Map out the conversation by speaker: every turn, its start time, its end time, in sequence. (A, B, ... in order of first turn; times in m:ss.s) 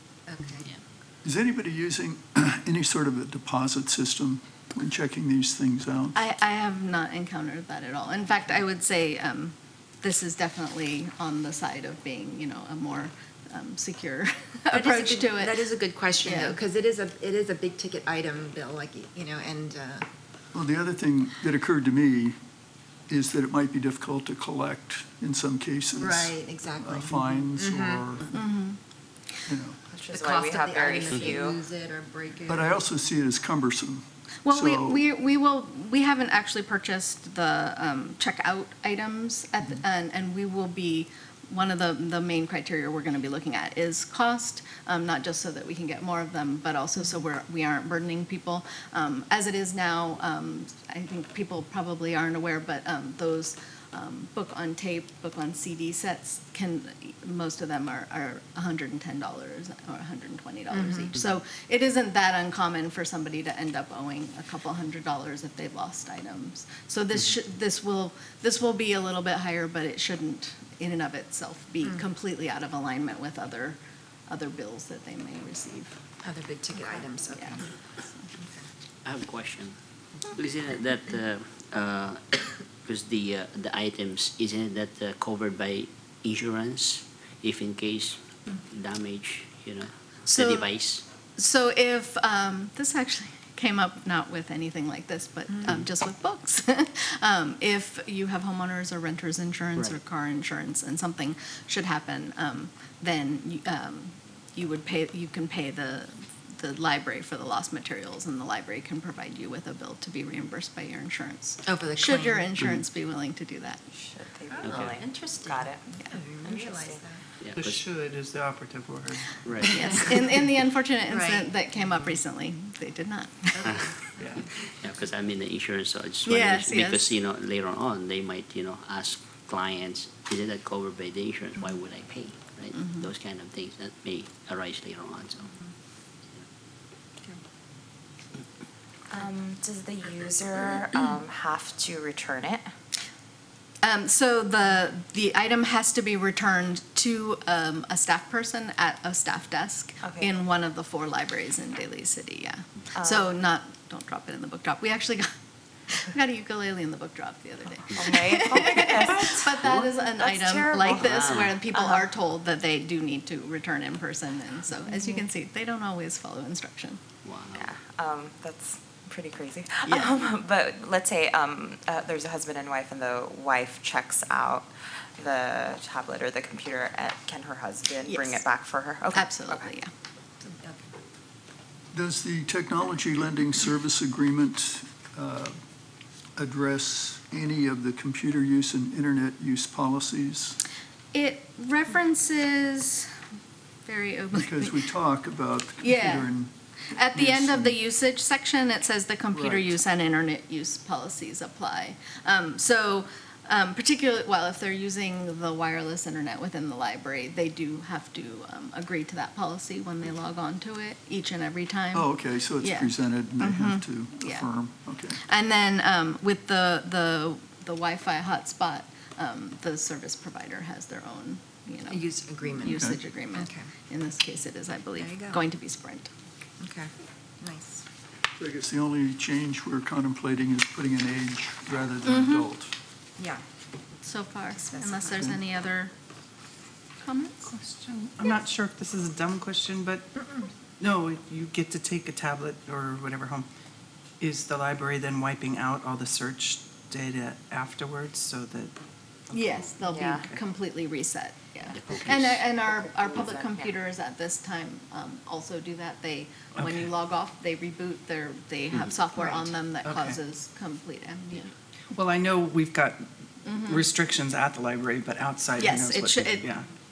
0:00.3-0:00.7 A
0:00.6-0:00.8 B
0:01.2-0:06.2 C
0:06.2-0:15.7 D
0:14.7-0:20.0 A
0:16.2-0:16.6 D
0:20.5-0:22.4 C
0:23.1-0:28.3 C
0:26.0-0:28.0 A
0:28.3-0:28.8 D
0:29.5-0:29.8 C
0:29.9-0:31.6 E
0:30.1-0:32.7 A
0:32.5-0:35.0 C
0:34.4-1:16.0 D
1:00.7-1:01.1 A
1:16.2-1:18.7 A
1:17.3-1:18.2 D
1:19.0-1:31.0 B
1:30.3-1:30.7 D
1:31.4-1:53.9 D
1:35.5-1:35.8 A
1:51.7-1:52.5 A
1:53.9-1:57.0 E
1:54.6-1:57.3 A
1:54.7-1:55.0 B
1:57.4-1:57.8 B
1:57.5-2:00.0 F
1:59.4-2:00.2 B
1:59.6-2:03.7 D
2:01.1-2:01.5 A
2:03.5-2:04.2 A
2:04.2-2:04.5 F
2:04.6-2:15.5 B
2:06.3-2:07.1 D
2:19.1-2:22.7 E
2:23.8-2:35.3 D
2:30.0-2:30.3 E
2:33.0-2:33.3 E
2:35.9-2:47.0 D
2:37.9-2:42.0 E
2:41.0-2:41.6 B
2:47.2-2:47.7 B
2:47.5-2:59.7 E
2:49.9-2:50.2 D
2:58.1-2:58.4 D
2:59.1-2:59.9 D
3:00.4-3:00.9 A
3:01.9-3:05.6 C
3:06.4-3:10.6 C
3:11.1-3:13.1 D
3:13.9-3:14.9 D
3:14.3-3:16.5 C
3:15.8-3:16.3 D
3:16.9-3:32.1 D
3:17.1-3:17.8 C
3:19.3-3:19.7 C
3:31.9-3:35.2 C
3:32.6-3:34.5 D
3:35.2-3:46.1 D
3:41.9-3:43.7 A
3:42.7-3:43.0 C
3:45.0-3:45.4 A
3:46.6-3:47.8 A
3:48.4-3:52.7 C
3:52.0-3:52.5 D
3:53.2-3:53.4 A
3:54.0-3:55.9 D
3:54.5-3:55.3 A
3:57.0-3:57.5 D
3:57.4-4:00.1 F
4:00.8-4:03.5 F
4:04.2-4:08.8 F
4:09.3-4:10.4 F
4:09.3-4:21.5 D
4:09.8-4:10.3 E
4:11.7-4:12.4 B
4:12.8-4:13.8 E
4:16.6-4:16.9 F
4:19.1-4:19.5 A
4:19.8-4:20.2 F
4:21.9-4:26.7 F
4:23.4-4:23.9 D
4:25.6-4:26.5 D